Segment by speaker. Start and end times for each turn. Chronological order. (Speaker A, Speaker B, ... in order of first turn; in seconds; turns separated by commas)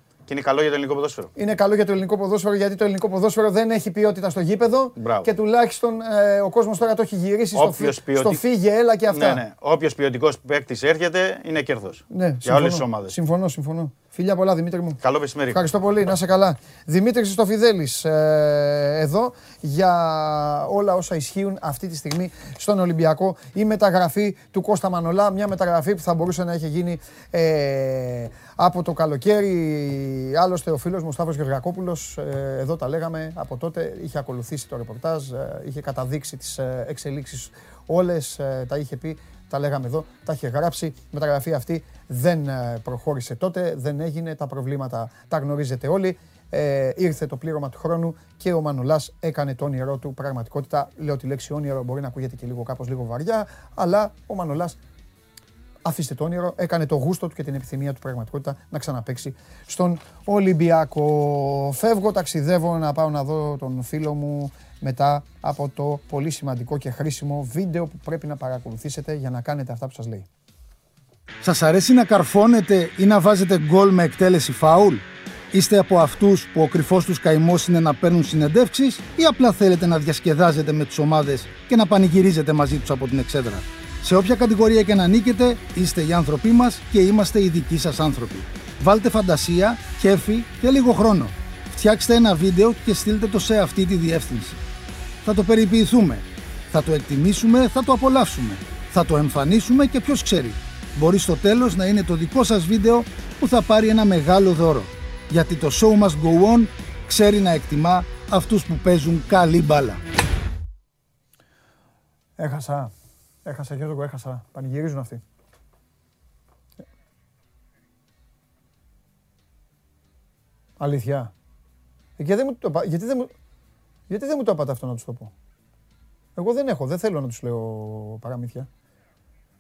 Speaker A: 0.3-1.3, Speaker B: 1.4-9.4, Speaker A: 5.0-5.3, Speaker A: 7.5-8.4, Speaker A: 9.1-13.2, Speaker B: 12.1-15.0, Speaker A: 15.0-15.7, Speaker B: 15.5-54.8, Speaker B: 55.9-70.3, Speaker C: 71.4-94.6, Speaker C: 95.2-110.0, Speaker B: 112.4-112.9, Speaker B: 113.5-115.2, Speaker B: 120.8-121.3, Speaker B: 122.2-123.3, Speaker B: 124.1-125.3, Speaker B: 126.4-128.7